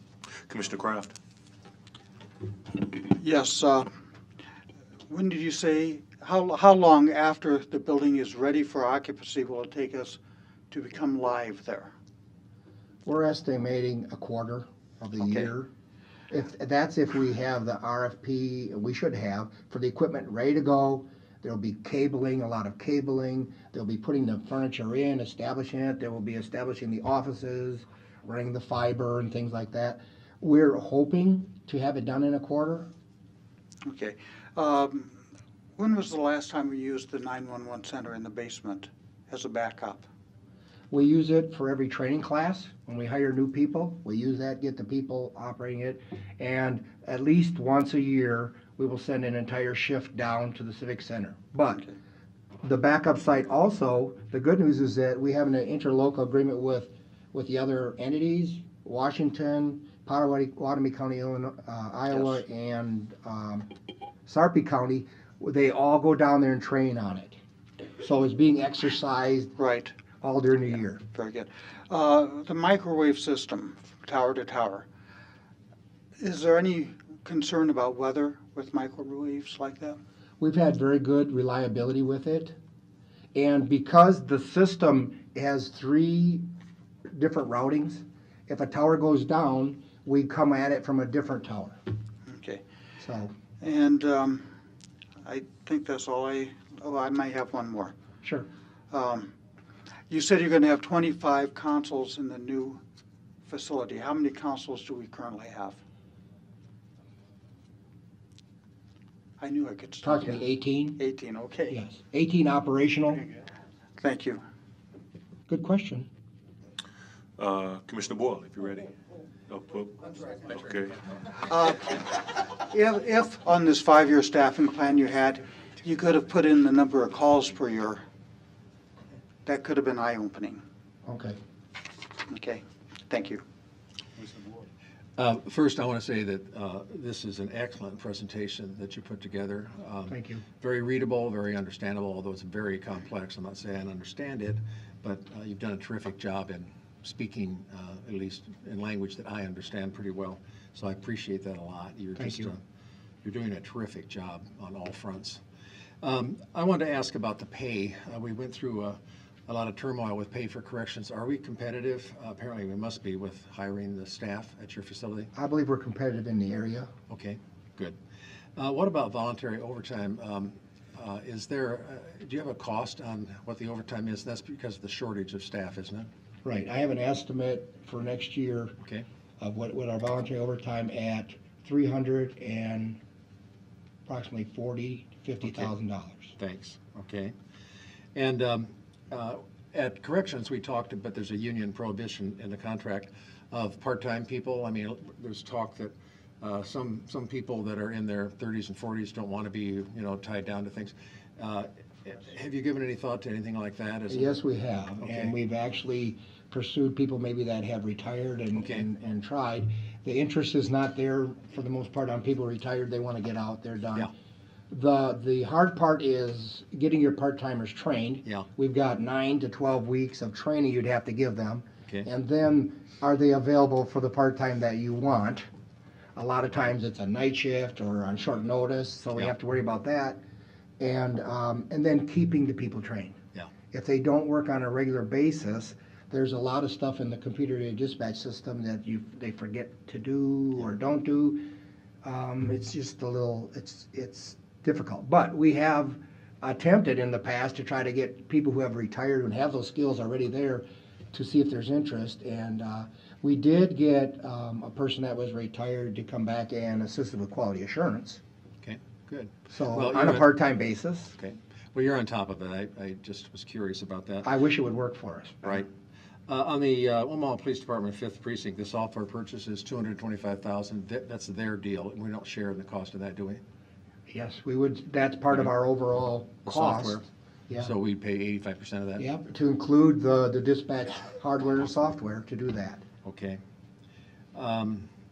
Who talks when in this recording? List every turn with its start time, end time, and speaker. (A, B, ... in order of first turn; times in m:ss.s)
0:00.5-0:01.1 A
0:02.8-0:03.9 B
0:05.1-0:10.2 B
0:10.7-0:11.9 B
0:13.0-0:15.7 C
0:15.2-0:15.5 B
0:16.3-0:32.9 C
0:33.8-0:35.2 B
0:35.8-0:40.0 B
0:40.9-0:51.9 C
0:52.6-1:03.7 C
1:04.2-1:07.4 C
1:08.0-1:09.5 C
1:09.6-1:09.9 B
1:10.2-1:11.0 C
1:11.1-1:14.8 B
1:16.2-1:20.0 B
1:20.4-1:22.5 C
1:23.3-1:26.4 C
1:27.1-1:31.8 C
1:32.3-1:32.6 B
1:33.0-1:33.3 C
1:33.6-1:34.4 B
1:35.2-1:37.9 B
1:38.2-1:38.5 C
1:38.9-1:39.3 B
1:40.1-1:42.8 B
1:43.4-1:45.8 B
1:49.4-1:50.4 B
1:50.0-1:51.0 C
1:51.0-1:51.8 B
1:51.7-1:53.2 C
1:54.0-1:54.4 B
1:55.5-1:56.1 C
1:57.4-1:58.9 A
1:59.5-2:01.0 A
2:01.3-2:08.0 B
2:09.4-2:10.6 B
2:11.0-2:11.4 C
2:12.3-2:13.4 B
2:15.2-2:32.6 D
2:20.1-2:20.4 C
2:32.2-2:32.5 C
2:33.2-2:35.4 D
2:36.0-2:45.3 D
2:45.3-2:46.9 C
2:47.1-2:48.0 D
2:48.6-2:56.1 D
2:56.4-2:58.7 C
2:59.4-3:03.0 C
3:04.1-3:06.3 C
3:05.4-3:05.7 D
3:06.4-3:07.3 D
3:08.1-3:24.4 D
3:24.1-3:34.1 C
3:25.0-3:25.3 D
3:28.6-3:28.8 D
3:34.7-3:45.5 C
3:46.2-3:50.2 C
3:50.8-3:53.1 C
3:53.7-4:01.5 C
4:02.0-4:18.2 C
4:18.6-4:20.3 D
4:19.5-4:21.1 C
4:21.2-4:24.3 D
4:24.2-4:25.6 C
4:26.3-4:33.4 D
4:34.1-4:37.7 C
4:36.4-4:37.0 D
4:37.6-4:39.2 D
4:39.0-4:42.8 C
4:43.0-4:43.4 D
4:44.3-4:44.9 D